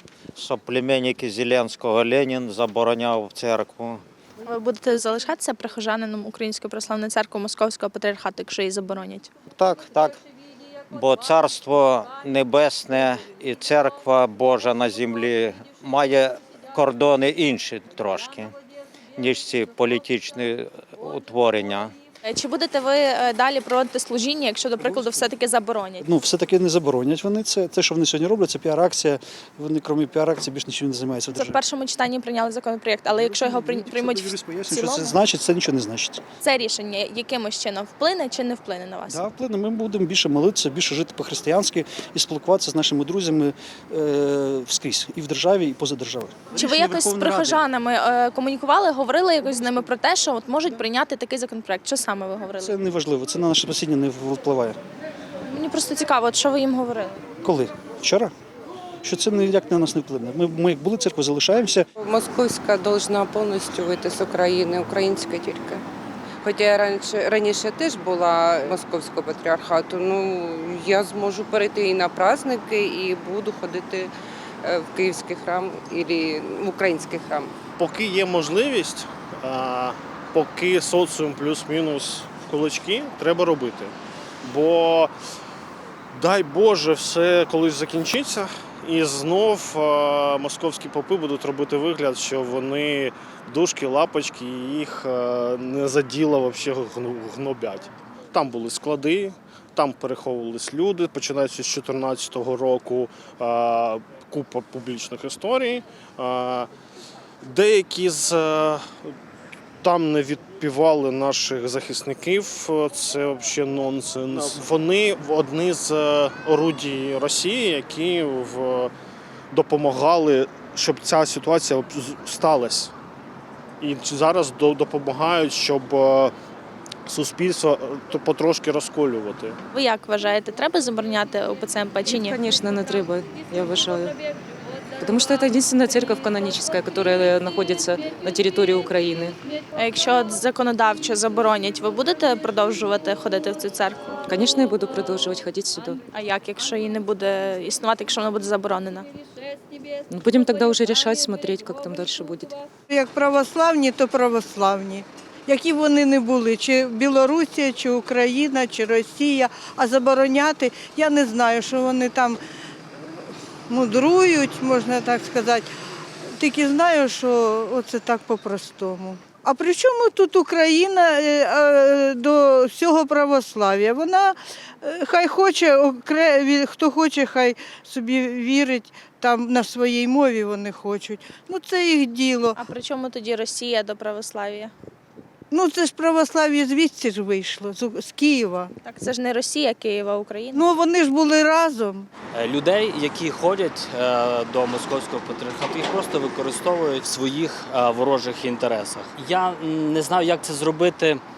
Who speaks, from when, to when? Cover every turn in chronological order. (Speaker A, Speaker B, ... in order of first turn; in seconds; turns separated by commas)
Speaker A: 0.3-4.0, Speaker B: 4.4-9.3, Speaker A: 9.5-10.2, Speaker A: 10.9-18.5, Speaker A: 19.2-21.9, Speaker B: 22.2-26.0, Speaker C: 24.8-25.2, Speaker C: 26.0-31.6, Speaker B: 31.3-35.2, Speaker C: 33.1-36.2, Speaker B: 36.4-39.2, Speaker C: 39.1-47.6, Speaker B: 46.5-52.8, Speaker C: 52.6-54.8, Speaker B: 55.5-57.2, Speaker C: 57.4-58.3, Speaker C: 59.0-61.9, Speaker D: 62.0-65.8, Speaker D: 66.4-74.1, Speaker D: 74.6-77.5, Speaker E: 77.8-85.1, Speaker E: 86.1-106.7, Speaker E: 107.4-109.1, Speaker E: 109.8-118.9, Speaker E: 119.5-122.9, Speaker E: 123.8-126.3, Speaker E: 127.0-129.6, Speaker B: 129.7-132.4, Speaker F: 132.1-134.1, Speaker F: 135.0-139.4, Speaker B: 139.8-144.2, Speaker F: 144.2-146.0, Speaker B: 146.1-149.1, Speaker F: 150.1-152.5, Speaker G: 152.9-162.4, Speaker G: 163.7-165.7, Speaker G: 166.3-182.6, Speaker B: 182.5-184.7, Speaker G: 185.5-188.7, Speaker B: 188.8-190.6, Speaker G: 190.5-192.1, Speaker H: 192.3-201.2